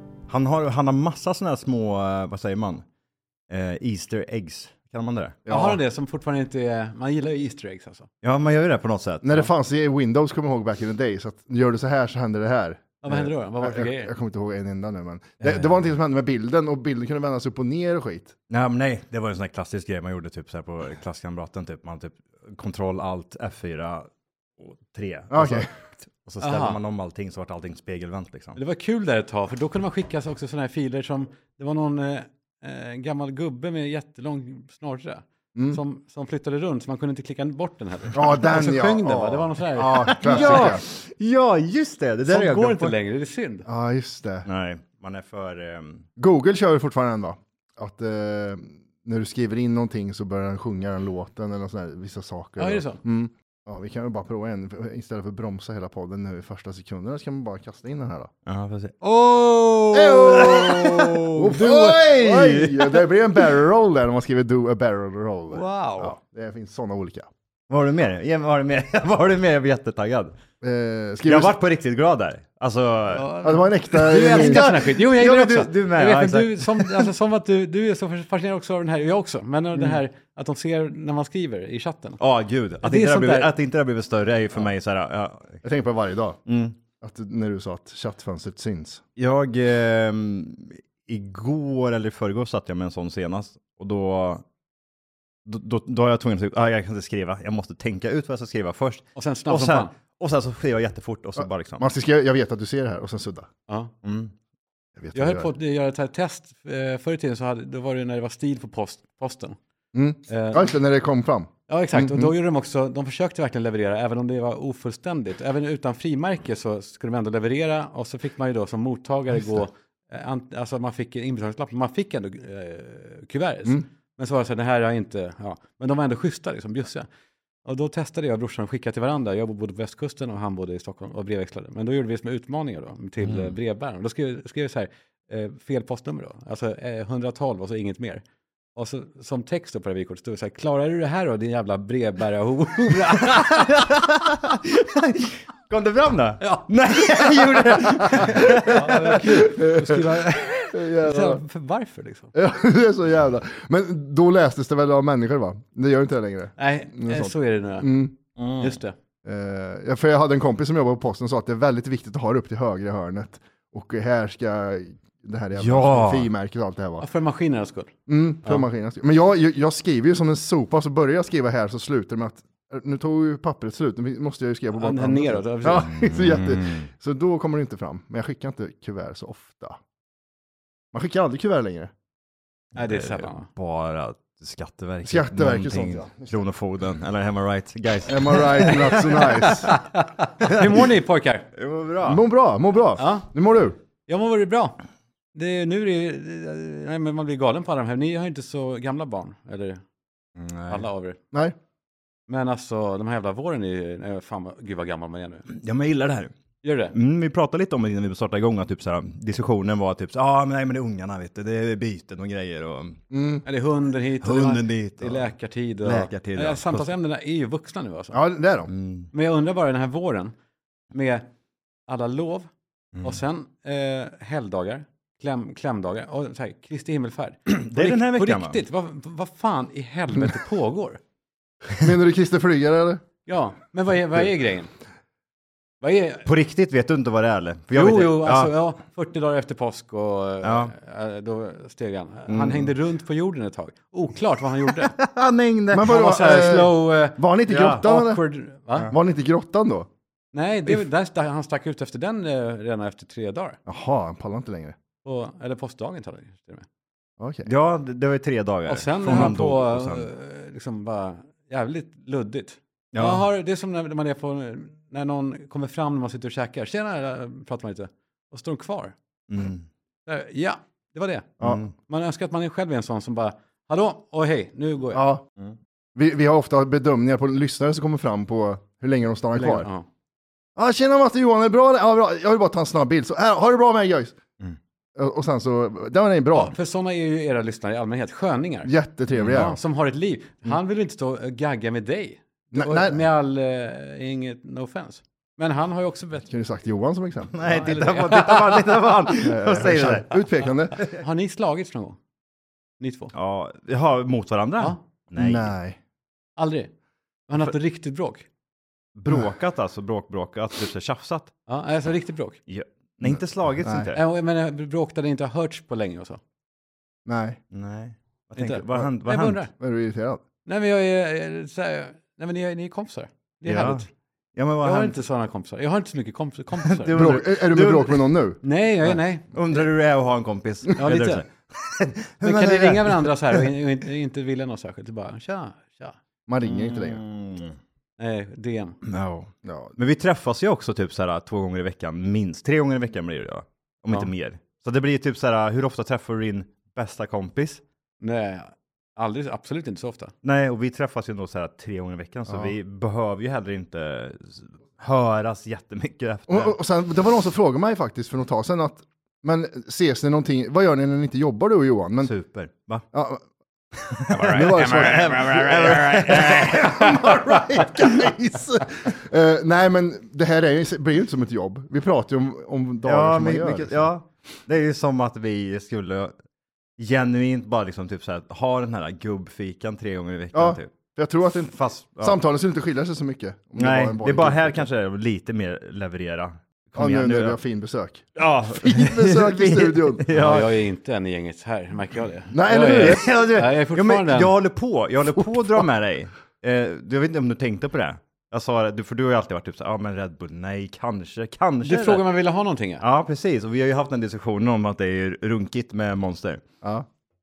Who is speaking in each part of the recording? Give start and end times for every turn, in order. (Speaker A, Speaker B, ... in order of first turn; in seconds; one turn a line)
Speaker A: 0.3-2.9
Speaker A: 3.5-5.4
Speaker B: 5.5-5.8
Speaker C: 5.5-8.1
Speaker A: 8.2-9.5
Speaker B: 9.2-18.4
Speaker C: 13.0-14.1
Speaker A: 18.5-28.6
Speaker B: 25.3-25.7
Speaker C: 26.4-26.8
Speaker C: 28.6-40.8
Speaker B: 35.5-35.8
Speaker B: 38.1-40.8
Speaker A: 39.9-43.0
Speaker C: 42.3-43.7
Speaker B: 43.7-44.5
Speaker A: 44.5-46.1
Speaker B: 46.2-58.3
Speaker C: 52.6-53.0
Speaker A: 58.5-63.1
Speaker C: 59.5-61.1
Speaker B: 59.9-67.3
Speaker C: 65.5-66.1
Speaker A: 67.7-70.3
Speaker B: 70.6-71.5
Speaker A: 71.2-73.4
Speaker C: 73.1-82.2
Speaker B: 73.4-74.7
Speaker A: 73.9-77.1
Speaker A: 82.2-85.6
Speaker C: 82.8-83.5
Speaker B: 85.6-86.4
Speaker A: 86.5-86.8
Speaker B: 87.0-89.0
Speaker A: 89.2-94.4
Speaker A: 95.5-101.9
Speaker C: 99.1-99.9
Speaker B: 101.8-103.5
Speaker C: 103.7-103.9
Speaker A: 104.0-104.3
Speaker B: 105.0-105.5
Speaker C: 105.1-109.6
Speaker B: 109.9-112.3
Speaker C: 110.3-110.7
Speaker C: 111.7-127.1
Speaker C: 127.6-138.2
Speaker A: 133.2-133.5
Speaker C: 138.8-143.7
Speaker A: 143.1-149.2
Speaker C: 146.4-147.5
Speaker B: 147.7-150.2
Speaker C: 148.1-152.3
Speaker B: 150.7-151.4
Speaker B: 152.3-158.2
Speaker C: 156.6-158.0
Speaker A: 158.4-158.8
Speaker C: 158.6-158.9
Speaker B: 159.2-167.0
Speaker A: 165.6-166.3
Speaker C: 167.0-167.9
Speaker B: 168.1-179.8
Speaker C: 174.8-176.4
Speaker A: 175.9-176.8
Speaker B: 180.9-181.9
Speaker A: 182.8-189.7
Speaker C: 182.8-183.5
Speaker B: 185.0-186.4
Speaker B: 188.1-189.7
Speaker C: 189.4-191.5
Speaker A: 190.4-190.9
Speaker A: 191.5-192.2
Speaker B: 192.0-193.8
Speaker C: 193.0-193.3
Speaker C: 194.1-194.8
Speaker C: 195.3-199.8
Speaker A: 200.4-200.8
Speaker C: 200.7-201.2
Speaker C: 202.3-205.5
Speaker A: 205.5-206.3
Speaker C: 206.6-206.9
Speaker A: 206.9-213.0
Speaker B: 213.1-213.4
Speaker C: 213.5-218.2
Speaker A: 214.2-216.9
Speaker B: 218.1-218.7
Speaker A: 218.7-219.1
Speaker C: 219.1-220.3
Speaker C: 220.9-221.3
Speaker C: 221.9-222.5
Speaker C: 223.0-231.0
Speaker A: 227.5-228.6
Speaker B: 231.7-233.0
Speaker C: 233.3-234.7
Speaker C: 235.8-236.3
Speaker A: 236.3-238.5
Speaker C: 237.7-244.9
Speaker A: 240.4-240.7
Speaker A: 242.3-242.7
Speaker A: 244.8-246.7
Speaker B: 245.7-248.2
Speaker C: 245.8-248.9
Speaker A: 247.5-247.8
Speaker B: 248.9-249.9
Speaker C: 250.3-253.6
Speaker B: 253.7-254.8
Speaker C: 255.0-256.7
Speaker B: 257.2-257.5
Speaker A: 257.4-260.1
Speaker C: 258.7-268.9
Speaker A: 262.9-263.2
Speaker A: 269.3-269.7
Speaker C: 270.1-275.1
Speaker A: 271.4-271.7
Speaker B: 274.9-275.2
Speaker B: 275.9-279.7
Speaker C: 279.3-279.9
Speaker B: 280.6-284.2
Speaker B: 284.9-286.6
Speaker C: 286.3-296.3
Speaker B: 288.7-289.6
Speaker A: 289.1-289.5
Speaker B: 292.5-293.0
Speaker B: 296.3-297.4
Speaker A: 297.3-301.0
Speaker C: 297.4-298.9
Speaker B: 299.2-300.8
Speaker C: 300.7-302.0
Speaker C: 302.8-303.1
Speaker A: 303.1-305.5
Speaker B: 305.2-305.8
Speaker C: 306.4-306.7
Speaker C: 307.3-308.3
Speaker A: 308.9-311.3
Speaker C: 311.5-312.4
Speaker A: 312.5-314.0
Speaker B: 313.0-313.9
Speaker C: 313.9-316.2
Speaker B: 317.1-317.4
Speaker A: 317.5-319.4
Speaker C: 318.4-319.5
Speaker B: 319.6-320.2
Speaker C: 320.4-323.9
Speaker A: 323.4-325.0
Speaker C: 324.6-327.0
Speaker A: 326.7-328.1
Speaker B: 326.9-328.4
Speaker C: 328.4-329.6
Speaker A: 329.3-333.4
Speaker C: 330.8-331.2
Speaker C: 332.2-336.0
Speaker B: 336.3-337.0
Speaker A: 336.4-337.6
Speaker C: 338.0-338.8
Speaker A: 338.8-347.6
Speaker B: 339.4-339.8
Speaker C: 348.0-350.1
Speaker A: 350.2-356.6
Speaker B: 352.3-352.5
Speaker B: 356.3-362.1
Speaker A: 362.0-362.9
Speaker B: 362.9-363.2
Speaker A: 363.8-368.5
Speaker C: 364.1-367.4
Speaker B: 364.2-365.7
Speaker B: 366.4-373.9
Speaker A: 372.8-376.1
Speaker A: 376.8-380.7
Speaker B: 380.3-384.7
Speaker A: 381.4-382.2
Speaker A: 383.6-387.4
Speaker B: 386.8-390.1
Speaker A: 388.2-390.6
Speaker C: 390.1-394.3
Speaker B: 392.3-393.1
Speaker A: 392.7-402.1
Speaker B: 395.2-395.6
Speaker C: 401.6-402.8
Speaker A: 402.8-406.4
Speaker B: 406.6-406.9